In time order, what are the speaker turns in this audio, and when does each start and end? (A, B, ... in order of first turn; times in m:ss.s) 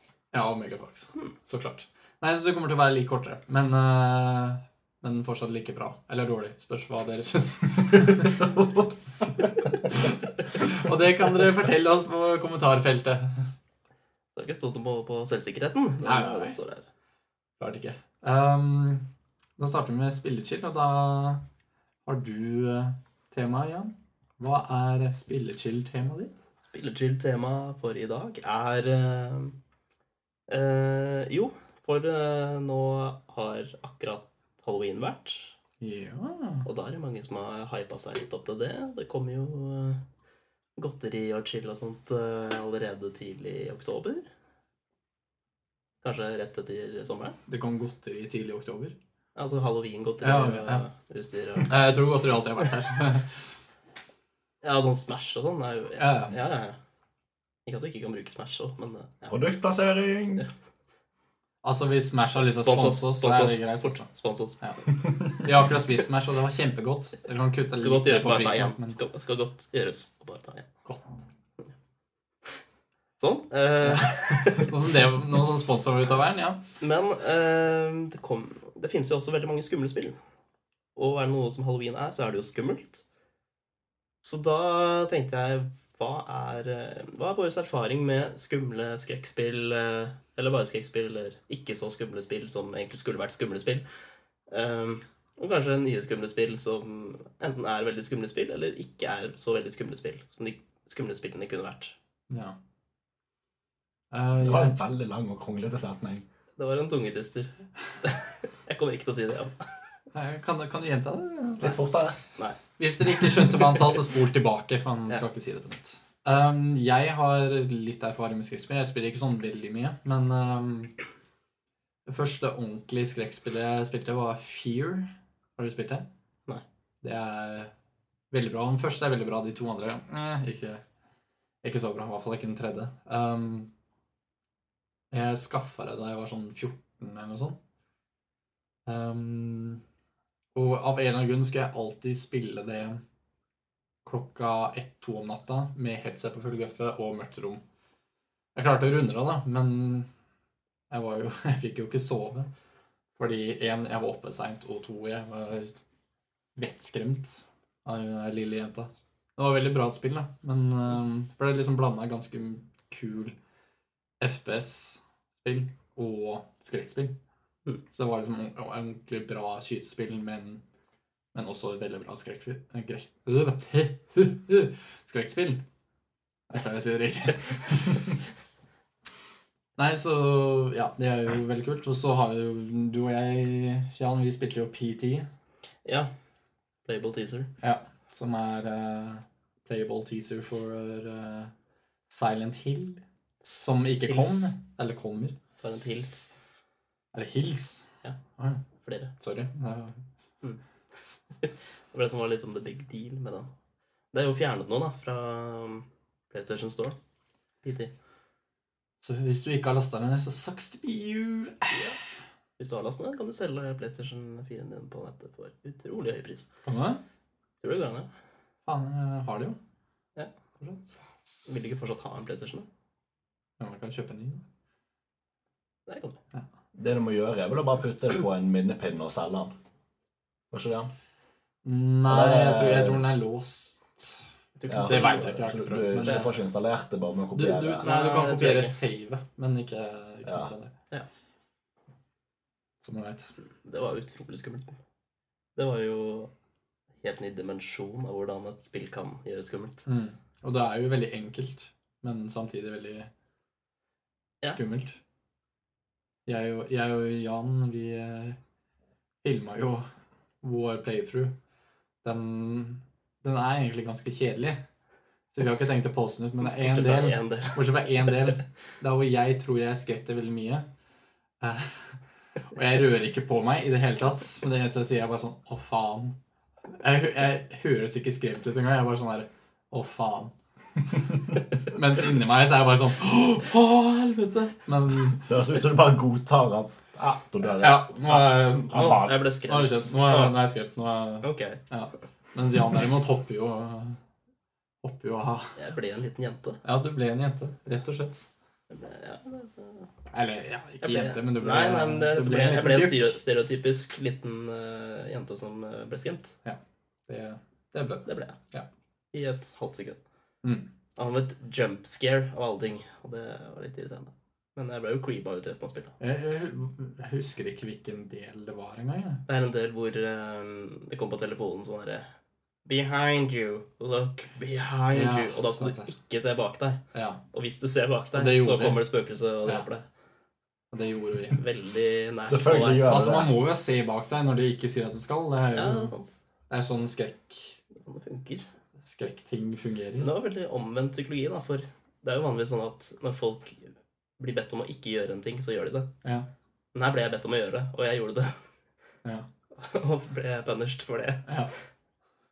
0:00.3-0:08.5 A
0:09.7-0:13.5 A
0:14.4-0:16.8 B
0:16.0-0:16.6 A
0:17.6-0:19.1 A
0:19.6-0:21.4 A
0:22.0-0:26.4 A
0:26.6-0:29.6 B
0:30.5-0:35.5 B
0:35.8-0:36.7 A
0:36.6-0:40.0 B
0:40.8-0:44.2 B
0:46.0-0:47.4 B
0:47.5-0:49.0 A
0:49.4-0:51.9 B
0:50.2-0:50.8 A
0:51.6-0:53.4 A
0:54.6-0:56.8 B
0:56.0-0:56.4 A
0:57.7-0:59.4 B
0:59.3-1:00.4 C
1:01.6-1:09.0 A
1:02.3-1:04.6 B
1:07.8-1:10.7 B
1:13.2-1:14.7 B
1:13.8-1:16.6 A
1:16.8-1:20.2 B
1:21.0-1:23.0 B
1:24.2-1:33.8 B
1:34.5-1:42.0 B
1:42.3-1:42.6 A
1:44.1-1:44.8 A
1:44.4-1:46.2 C
1:46.6-1:49.8 B
1:50.1-1:51.8 A
1:51.6-1:52.2 C
1:52.8-2:01.0 A
2:02.1-2:06.1 A
2:07.0-2:07.7 A
2:08.3-2:10.8 A
2:11.6-2:13.7 A
2:15.1-2:17.6 A
2:18.9-2:19.8 A
2:20.6-2:23.0 A
2:24.0-2:27.6 A
2:28.6-2:30.1 A
2:30.9-2:32.5 A
2:33.2-2:35.8 A
2:36.6-2:43.4 A
2:44.2-2:47.1 A
2:47.9-2:50.6 A
2:51.3-2:55.6 A
2:56.5-2:58.2 A
2:59.8-3:05.3 A
3:05.8-3:06.1 B
3:06.8-3:07.5 B
3:07.6-3:11.5 A
3:12.1-3:13.0 A
3:13.4-3:14.5 B
3:13.6-3:15.4 A
3:15.6-3:16.3 B
3:17.1-3:18.6 A
3:18.8-3:19.1 B
3:19.2-3:20.0 A
3:21.4-3:23.5 B
3:24.1-3:27.0 B
3:27.6-3:27.9 B
3:29.0-3:31.9 A
3:32.6-3:36.5 B
3:36.6-3:37.0 A
3:37.6-3:38.1 B
3:38.7-3:39.6 A
3:41.5-3:42.7 B
3:43.6-3:44.4 A
3:45.9-3:46.2 B
3:46.8-3:49.5 C
3:50.5-3:50.9 C
3:51.6-3:54.3 A
3:52.1-3:53.1 C
3:54.6-3:55.4 B
3:54.7-3:57.9 C
3:54.8-3:56.3 A
3:56.0-3:56.3 B
3:57.3-4:00.7 A
3:57.8-3:58.8 B
4:02.8-4:03.4 A
4:03.6-4:04.8 B
4:05.6-4:06.3 B
4:07.0-4:09.8 B
4:09.9-4:13.1 A
4:14.5-4:15.0 A
4:16.3-4:18.4 A
4:19.2-4:19.9 A
4:20.4-4:21.4 A
4:22.0-4:24.6 A
4:25.3-4:30.7 A
4:26.4-4:28.4 B
4:31.4-4:32.0 A
4:32.5-4:36.2 A
4:36.8-4:40.3 A
4:40.9-4:45.3 A
4:45.2-4:49.2 C
4:47.5-4:54.0 A
4:48.7-4:50.4 B
4:51.2-4:51.6 B
4:54.8-4:55.6 A
4:55.6-4:56.6 B
4:56.6-4:58.2 A
4:58.7-4:59.9 B
5:00.1-5:03.2 A
5:00.8-5:06.4 B
5:06.4-5:08.7 A
5:08.1-5:08.4 B
5:09.1-5:10.0 B
5:10.4-5:10.7 A
5:11.0-5:16.0 B
5:16.0-5:19.2 A
5:19.3-5:22.1 B
5:22.7-5:26.8 B
5:24.9-5:25.9 A
5:26.9-5:27.2 A
5:27.3-5:29.8 B
5:28.1-5:28.8 A
5:30.7-5:31.4 A
5:31.3-5:33.0 B
5:32.2-5:33.4 C
5:32.9-5:35.9 A
5:35.5-5:36.1 B
5:36.5-5:37.6 A
5:37.8-5:38.5 B
5:38.8-5:40.1 A
5:40.0-5:45.9 B
5:46.7-5:48.4 B
5:49.6-5:51.3 B
5:51.3-5:51.5 A